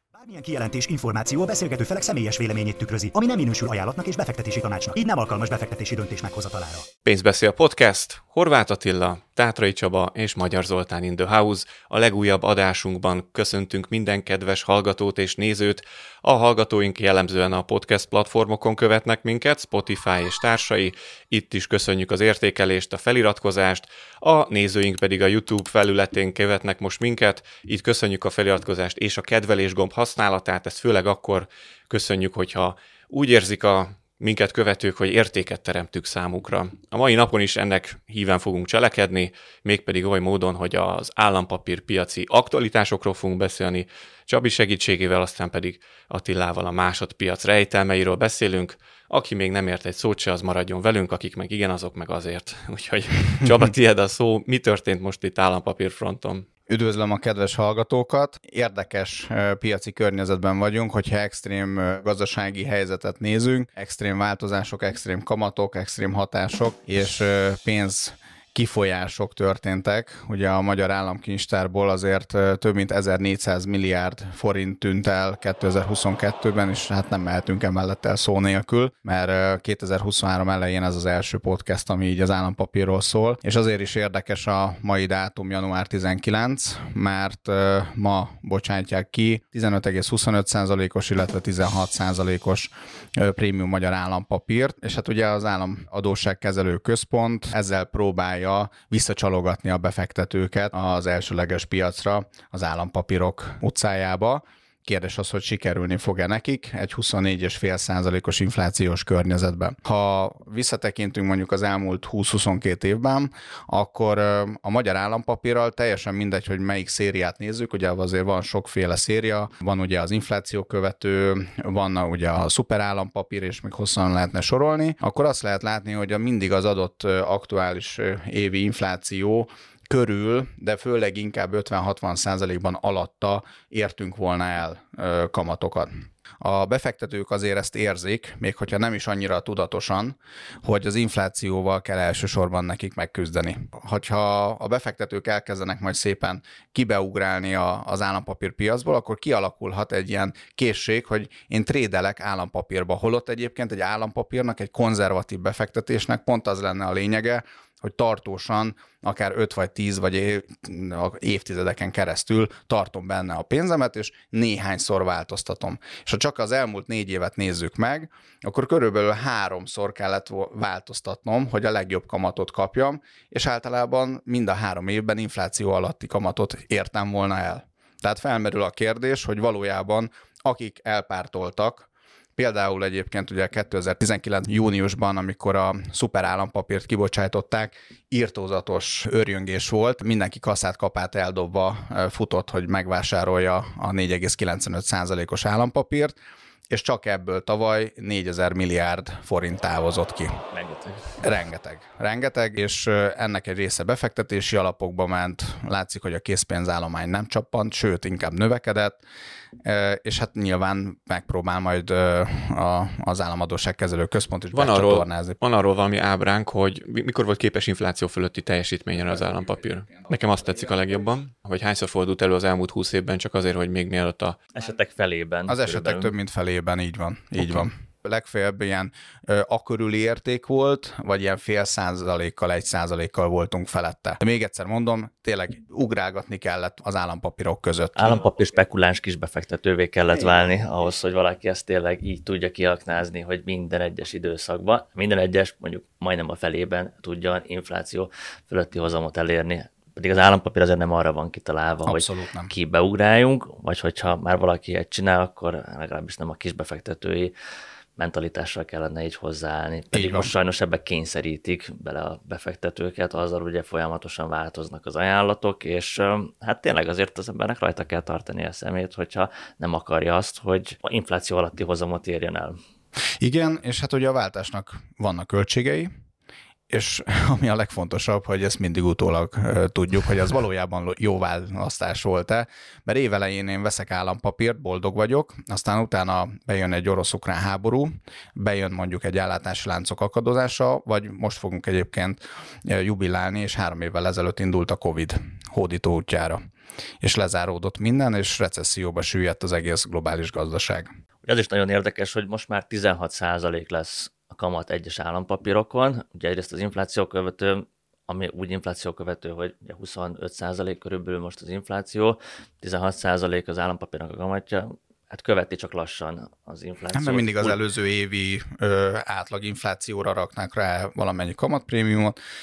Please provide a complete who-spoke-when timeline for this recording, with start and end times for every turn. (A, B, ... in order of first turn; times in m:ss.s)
0:00.1-0:06.9 A
0:07.0-0:56.5 B
0:56.7-3:16.2 C
3:16.7-3:20.4 C
3:20.5-3:21.0 D
3:21.2-3:29.0 C
3:29.6-3:35.4 C
3:34.5-3:44.4 B
3:44.5-3:46.1 D
3:45.5-3:58.2 C
3:58.0-4:17.3 D
4:11.9-4:12.5 C
4:18.0-4:32.6 D
4:19.9-4:20.3 C
4:33.2-4:35.9 C
4:36.7-4:56.4 C
4:57.0-5:00.9 C
5:01.3-5:17.6 D
5:16.9-5:22.2 C